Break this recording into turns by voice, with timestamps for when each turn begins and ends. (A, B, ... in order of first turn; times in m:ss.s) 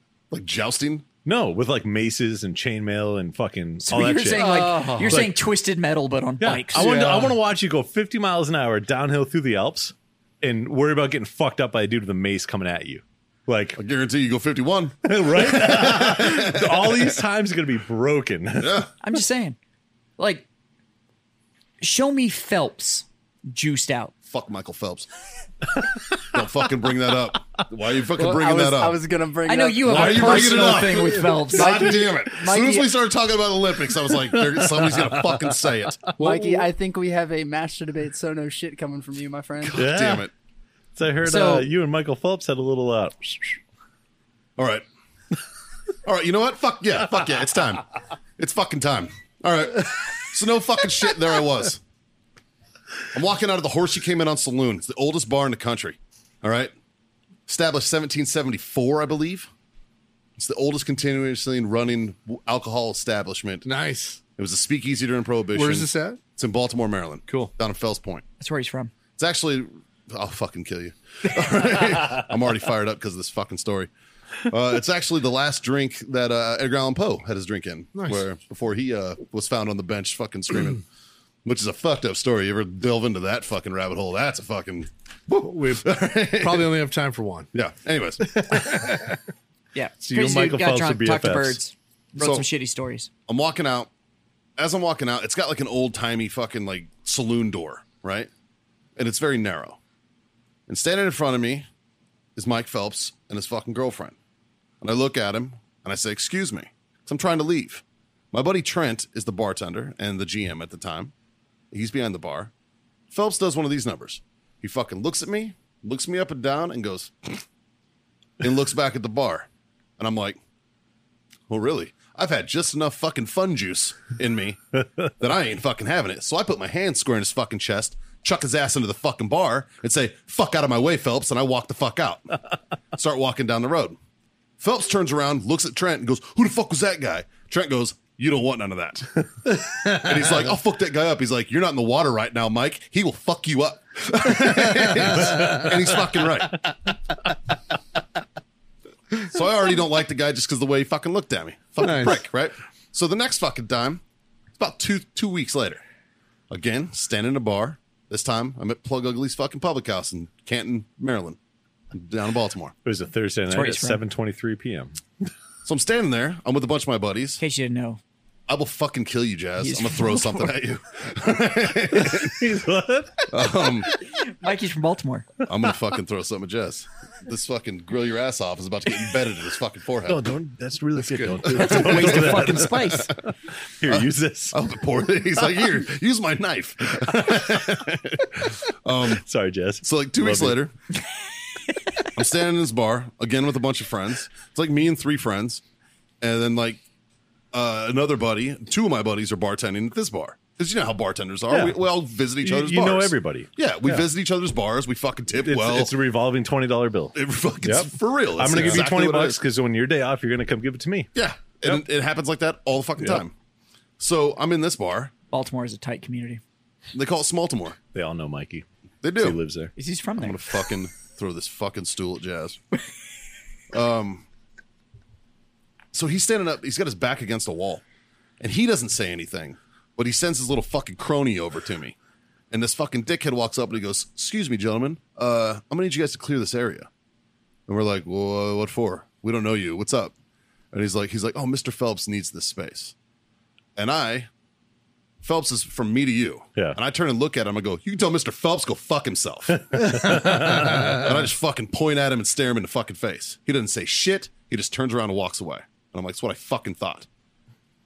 0:00.3-0:01.0 A
0:01.2-0:05.3 B
0:03.8-0:07.2 C
0:04.5-0:05.2 D
0:06.4-0:13.8 B
0:06.8-0:07.1 A
0:13.8-0:17.2 A
0:15.0-0:18.8 B
0:18.6-0:18.9 A
0:19.0-0:19.6 C
0:20.2-0:20.4 C
0:21.8-0:24.1 C
0:24.3-0:25.1 A
0:26.2-0:29.0 A
0:28.2-0:32.9 E
0:29.4-0:31.8 C
0:29.8-0:36.1 A
0:34.3-0:36.2 B
0:36.2-0:39.8 E
0:36.2-0:36.6 D
0:39.6-0:40.3 A
0:39.7-0:40.3 B
0:41.0-0:43.6 B
0:41.2-0:41.7 C
0:44.6-0:44.8 A
0:46.0-0:51.8 A
0:53.1-0:56.7 A
0:57.5-0:59.5 A
1:00.4-1:03.6 A
1:03.6-1:04.2 D
1:04.4-1:08.2 A
1:05.5-1:06.2 D
1:07.3-1:07.5 D
1:08.4-1:08.9 C
1:09.2-1:13.9 A
1:14.4-1:20.8 A
1:17.9-1:18.2 D
1:21.4-1:26.7 A
1:25.4-1:27.5 D
1:27.5-1:28.8 A
1:28.3-1:29.2 D
1:29.7-1:33.1 C
1:30.0-1:31.6 B
1:32.2-1:32.4 A
1:33.3-1:33.9 A
1:34.6-1:38.3 A
1:39.0-1:39.8 A
1:40.7-1:41.7 A
1:42.4-1:44.2 A
1:44.8-1:51.1 A
1:51.7-1:52.5 A
1:53.1-1:57.4 A
1:58.4-1:59.5 A
2:00.0-2:00.4 A
2:01.5-2:12.4 A
2:12.9-2:14.0 A
2:14.6-2:26.7 A
2:24.5-2:25.8 D
2:29.2-2:34.0 A
2:31.8-2:32.2 D
2:34.6-2:35.8 A
2:36.5-2:41.4 A
2:41.9-2:42.7 A
2:42.8-2:45.0 B
2:43.5-2:44.0 C
2:45.6-2:47.4 A
2:47.4-2:48.0 C
2:48.5-2:52.4 A
2:49.6-2:50.5 C
2:51.9-2:53.2 B
2:53.3-2:53.9 A
2:53.8-2:55.3 C
2:55.4-3:00.2 A
3:00.0-3:04.5 B
3:01.0-3:01.5 D
3:01.5-3:03.1 C
3:01.7-3:02.5 A
3:03.9-3:09.2 A
3:09.2-3:10.6 B
3:09.8-3:10.7 A
3:12.1-3:15.6 A
3:16.2-3:16.8 A
3:17.5-3:25.9 A
3:21.5-3:21.7 B
3:22.4-3:24.0 B
3:25.4-3:31.1 B
3:27.1-3:29.4 A
3:31.1-3:33.3 A
3:34.0-3:35.1 A
3:35.3-3:36.4 C
3:36.9-3:37.8 A
3:37.9-3:39.7 B
3:39.0-3:39.4 A
3:39.8-3:40.4 C
3:40.2-3:42.6 A
3:43.7-3:44.2 A
3:45.9-3:47.8 A
3:48.4-3:52.0 A
3:52.5-3:56.9 A
3:57.7-4:00.1 A
4:00.7-4:02.9 A
4:03.8-4:04.3 A
4:05.2-4:17.1 A
4:09.7-4:11.1 B